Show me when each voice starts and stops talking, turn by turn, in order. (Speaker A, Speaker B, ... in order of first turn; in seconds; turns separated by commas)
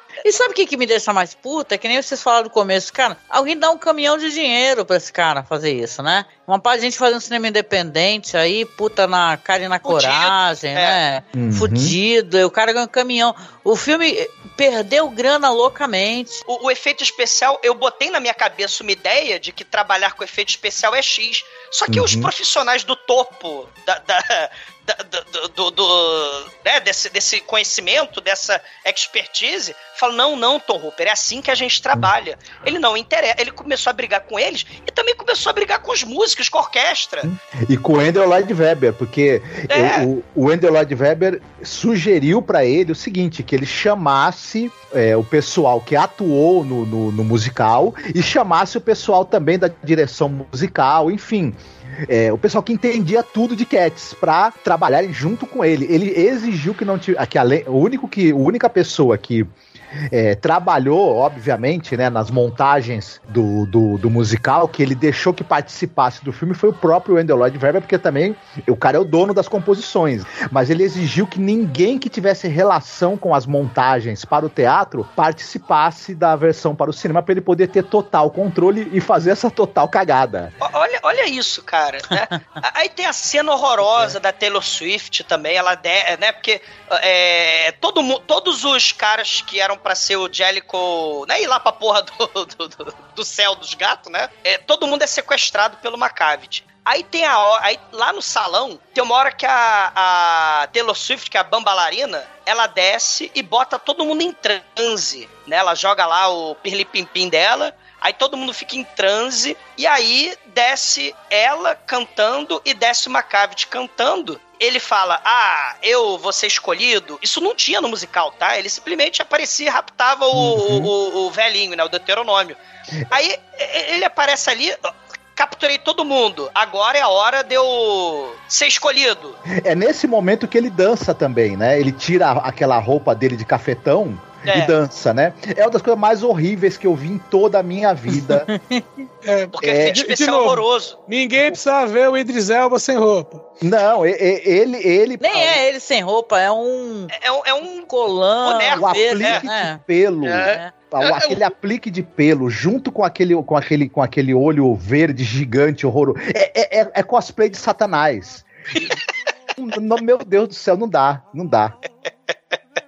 Speaker A: 0.2-16.4, Speaker B: 9.8-11.0, Speaker C: 11.3-12.0, Speaker B: 16.5-37.3, Speaker C: 21.9-22.3, Speaker C: 37.2-59.5, Speaker B: 39.7-40.1, Speaker C: 60.1-80.5, Speaker B: 80.6-122.6, Speaker C: 120.3-120.9, Speaker B: 123.1-129.4, Speaker C: 129.6-138.5, Speaker B: 134.4-134.7, Speaker A: 138.2-139.0, Speaker D: 139.2-143.4, Speaker B: 139.5-141.0, Speaker C: 139.6-140.0, Speaker C: 143.6-145.6, Speaker A: 145.2-147.1, Speaker B: 147.1-147.9, Speaker A: 147.9-149.8, Speaker B: 148.4-149.4, Speaker C: 148.8-158.8, Speaker B: 151.0-151.5, Speaker C: 159.6-161.7